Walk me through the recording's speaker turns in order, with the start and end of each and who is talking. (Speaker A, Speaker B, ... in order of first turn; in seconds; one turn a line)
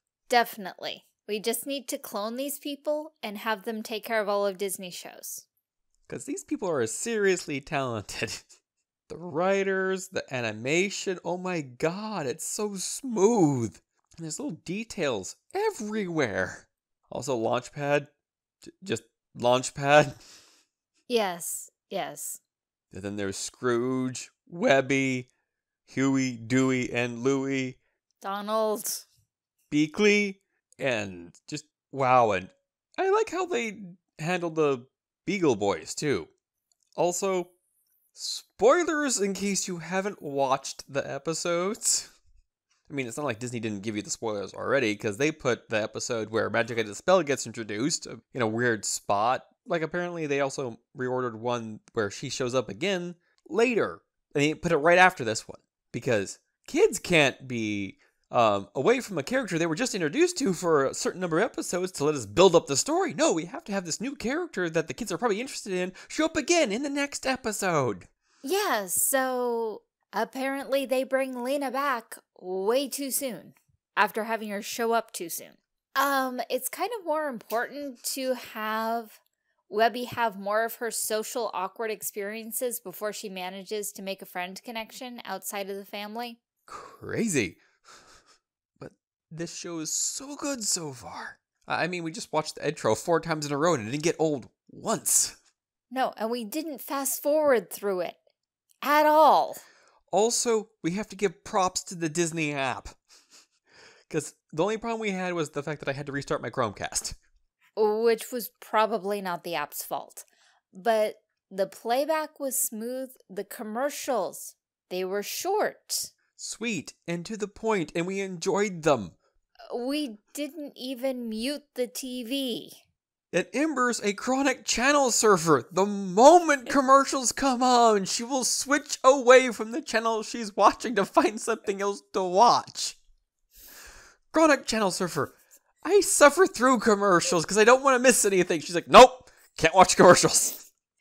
Speaker A: 0.3-5.4
Speaker B: 6.1-8.4
Speaker B: 9.1-18.1
Speaker B: 18.6-20.2
Speaker A: 21.1-22.4
Speaker B: 22.9-25.3
Speaker B: 25.9-27.8
Speaker A: 28.2-29.1
Speaker B: 29.7-36.3
Speaker B: 37.0-37.5
Speaker B: 38.1-42.1
Speaker B: 42.9-68.1
Speaker A: 68.4-79.2
Speaker A: 79.7-86.4
Speaker B: 86.7-87.6
Speaker B: 88.8-95.4
Speaker A: 95.9-98.2
Speaker A: 98.8-99.6
Speaker B: 100.1-103.0
Speaker B: 104.1-107.2
Speaker A: 107.8-116.1
Speaker B: 116.4-119.2
Speaker A: 119.7-122.8
Speaker B: 123.3-133.0
Speaker B: 134.3-140.6